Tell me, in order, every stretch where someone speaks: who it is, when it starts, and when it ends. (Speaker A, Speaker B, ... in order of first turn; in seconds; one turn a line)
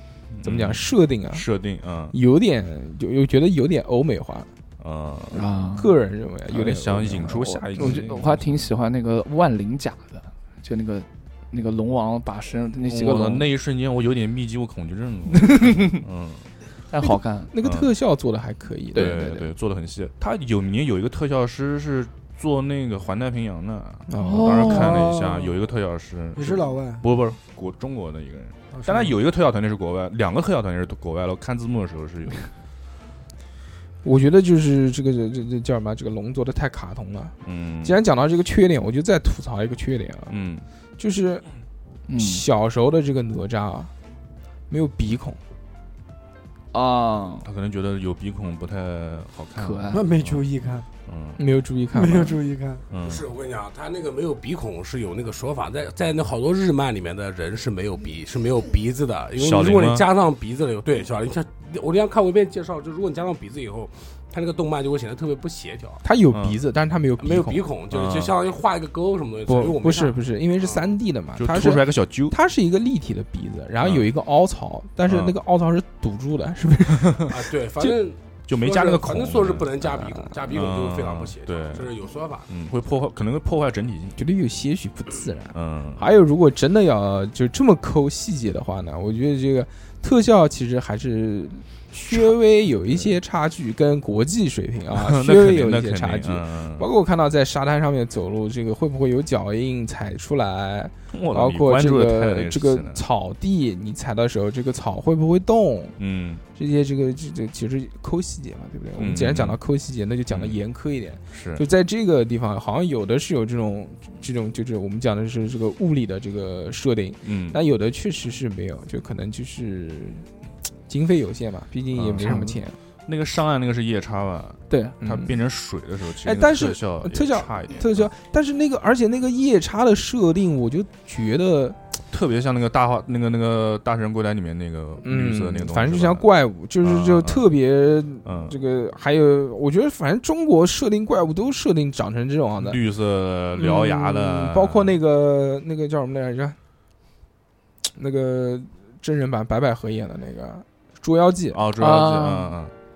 Speaker A: 0.3-2.2
Speaker B: 0.4-1.4
Speaker B: 2.1-4.5
Speaker A: 4.8-5.5
Speaker C: 5.3-5.9
Speaker B: 5.8-8.0
Speaker A: 6.5-8.5
Speaker C: 7.7-13.4
Speaker A: 12.8-16.4
Speaker C: 15.3-16.0
Speaker C: 16.9-17.5
Speaker B: 17.1-19.4
Speaker A: 17.6-17.9
Speaker C: 18.9-19.4
Speaker A: 18.9-32.5
Speaker B: 24.1-25.0
Speaker C: 24.2-25.0
Speaker D: 24.7-25.4
Speaker D: 26.4-27.0
Speaker D: 28.7-29.1
Speaker B: 34.0-40.3
Speaker A: 37.4-38.0
Speaker A: 40.3-40.6
Speaker B: 41.0-41.5
Speaker C: 42.1-42.4
Speaker B: 42.1-43.9
Speaker B: 44.7-45.4
Speaker C: 46.7-47.5
Speaker A: 47.5-50.5
Speaker C: 49.6-50.1
Speaker D: 49.9-50.9
Speaker A: 51.1-51.4
Speaker B: 51.4-52.4
Speaker D: 51.9-52.8
Speaker A: 52.9-53.3
Speaker E: 53.0-66.0
Speaker A: 59.4-60.1
Speaker B: 66.0-67.6
Speaker A: 66.3-66.6
Speaker E: 67.2-70.9
Speaker A: 67.9-68.3
Speaker B: 69.5-78.0
Speaker A: 71.4-72.4
Speaker A: 73.8-74.1
Speaker A: 75.1-75.4
Speaker E: 77.3-82.5
Speaker A: 78.5-79.8
Speaker B: 80.0-80.3
Speaker A: 80.5-81.9
Speaker A: 82.5-84.2
Speaker B: 84.2-106.0
Speaker A: 85.5-86.0
Speaker A: 92.1-93.2
Speaker A: 94.9-96.9
Speaker A: 101.1-103.0
Speaker A: 106.0-106.4
Speaker B: 106.6-120.3
Speaker A: 109.0-109.6
Speaker A: 110.3-110.6
Speaker A: 111.3-111.6
Speaker A: 117.2-117.6
Speaker B: 120.9-122.8
Speaker A: 121.9-122.5
Speaker A: 123.1-128.1
Speaker C: 124.7-125.0
Speaker B: 125.0-125.4
Speaker B: 126.2-131.8
Speaker A: 132.1-136.3
Speaker B: 135.0-142.8
Speaker A: 136.8-137.5
Speaker A: 138.2-138.6
Speaker A: 142.6-145.0
Speaker B: 143.6-146.6
Speaker B: 147.9-151.6
Speaker A: 151.5-152.7
Speaker C: 151.8-152.6